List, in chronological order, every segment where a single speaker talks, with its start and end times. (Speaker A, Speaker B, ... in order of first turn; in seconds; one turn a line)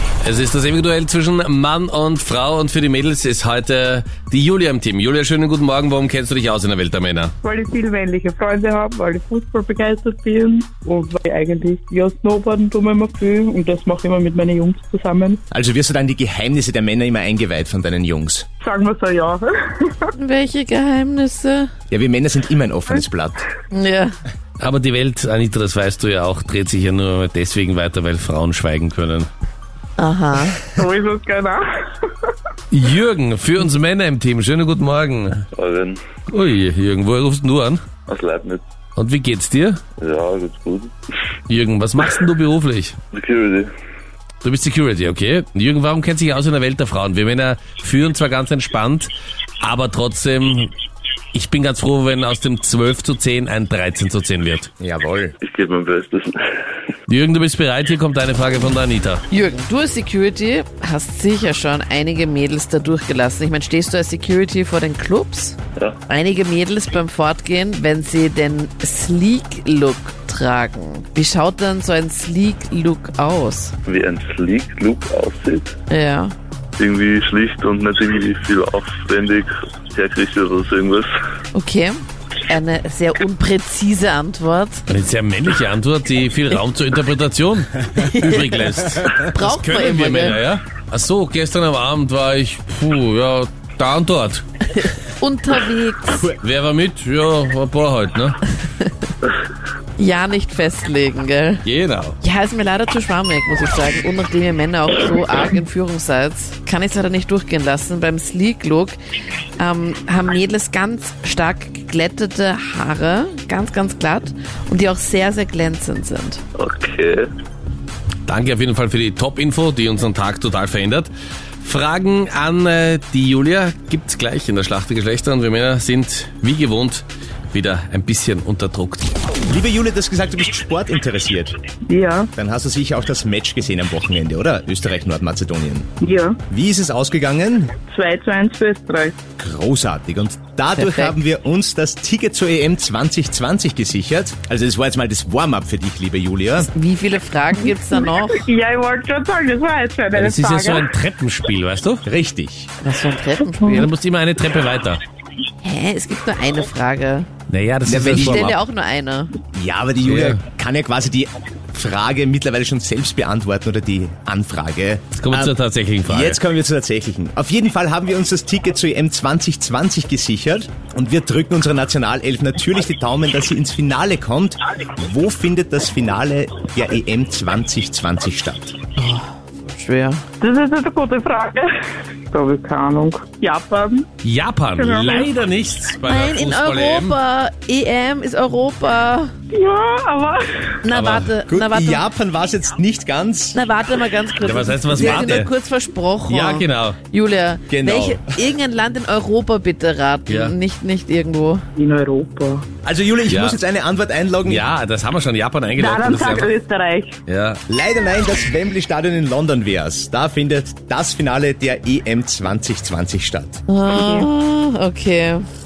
Speaker A: 0.2-7.3
Speaker B: 7.4-15.4
Speaker C: 15.5-18.4
Speaker B: 18.6-20.1
Speaker D: 20.1-21.7
Speaker C: 21.9-23.4
Speaker D: 23.7-24.1
Speaker A: 24.6-29.3
Speaker D: 30.0-30.6
Speaker B: 30.7-32.3
Speaker A: 32.7-35.5
Speaker E: 35.5-36.0
Speaker A: 36.3-37.8
Speaker E: 38.1-38.6
Speaker A: 39.0-39.8
Speaker E: 40.0-40.9
Speaker A: 41.5-43.0
Speaker E: 43.1-43.7
Speaker A: 44.4-49.1
Speaker A: 49.6-50.7
Speaker A: 51.3-54.7
Speaker C: 54.8-55.3
Speaker E: 55.4-56.5
Speaker A: 57.1-59.2
Speaker D: 59.3-73.7
Speaker E: 73.8-75.7
Speaker D: 75.9-76.3
Speaker E: 76.8-81.1
Speaker D: 81.5-84.8
Speaker A: 84.9-94.4
Speaker D: 88.0-90.4
Speaker D: 94.8-96.3
Speaker A: 96.4-98.4
Speaker D: 100.0-101.6
Speaker A: 101.6-102.2
Speaker D: 102.2-109.0
Speaker D: 109.6-116.4
Speaker E: 116.5-117.3
Speaker A: 118.2-121.1
Speaker A: 121.6-129.1
Speaker C: 129.5-131.5
Speaker B: 131.9-132.3
Speaker C: 132.3-135.9
Speaker B: 136.0-136.4
Speaker C: 136.5-137.7
Speaker B: 137.9-139.2
Speaker C: 139.4-146.7
Speaker D: 140.8-141.1
Speaker D: 146.6-148.4
Speaker B: 147.9-150.8
Speaker A: 150.1-152.0
Speaker C: 152.1-152.7
Speaker D: 152.8-153.9
Speaker A: 153.7-155.0
Speaker D: 155.6-157.3
Speaker A: 157.5-158.6
Speaker C: 157.8-158.5
Speaker D: 158.1-159.3
Speaker C: 159.5-165.5
Speaker A: 160.0-160.4
Speaker A: 165.2-166.4
Speaker C: 166.1-178.8
Speaker D: 179.0-180.2
Speaker B: 180.4-181.7
Speaker B: 182.3-184.1
Speaker A: 184.2-187.2
Speaker B: 184.7-185.3
Speaker D: 186.1-189.3
Speaker B: 189.5-190.4
Speaker D: 190.8-192.1
Speaker A: 190.9-191.3
Speaker C: 191.5-193.6
Speaker D: 193.5-201.6
Speaker A: 194.4-195.5
Speaker C: 195.0-195.4
Speaker A: 196.3-197.0
Speaker C: 197.7-198.3
Speaker A: 200.3-200.6
Speaker B: 201.8-202.7
Speaker C: 202.8-204.7
Speaker A: 203.2-203.6
Speaker A: 204.4-206.5
Speaker B: 205.8-207.2
Speaker A: 207.3-207.6
Speaker C: 207.7-213.6
Speaker D: 213.7-215.4
Speaker B: 213.9-214.3